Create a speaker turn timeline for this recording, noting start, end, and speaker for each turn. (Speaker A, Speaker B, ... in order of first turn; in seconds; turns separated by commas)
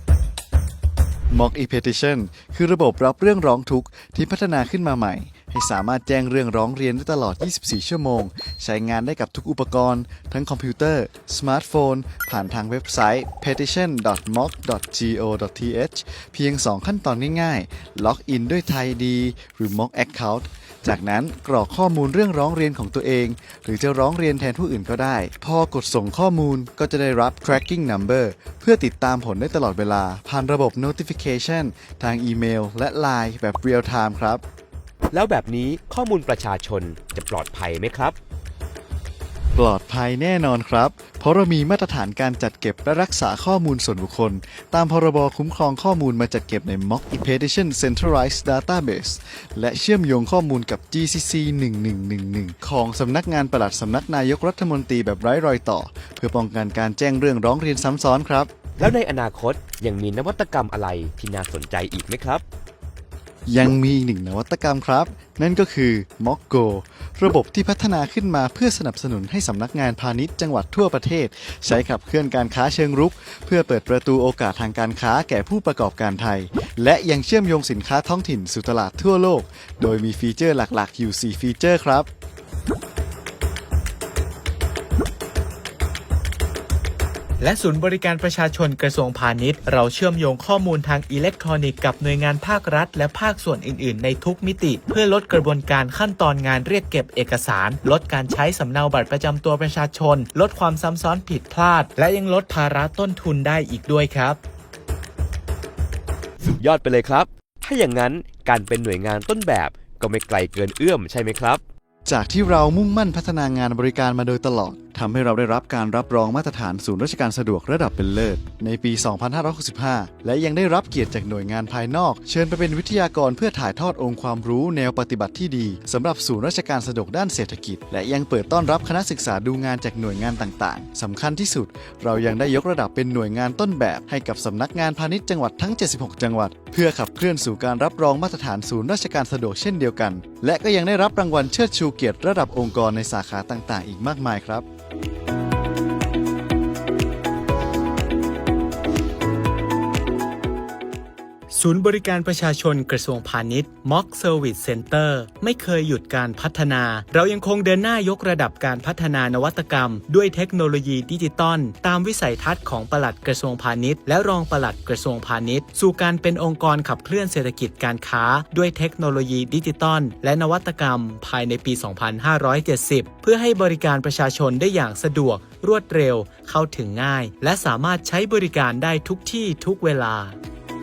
Speaker A: 1.3-34.4, Speaker B: 35.1-38.2, Speaker A: 39.5-58.5, Speaker B: 58.8-62.4, Speaker A: 63.5-82.1, Speaker C: 87.4-104.4, Speaker B: 106.4-111.6, Speaker A: 112.0-144.6, Speaker C: 151.5-180.4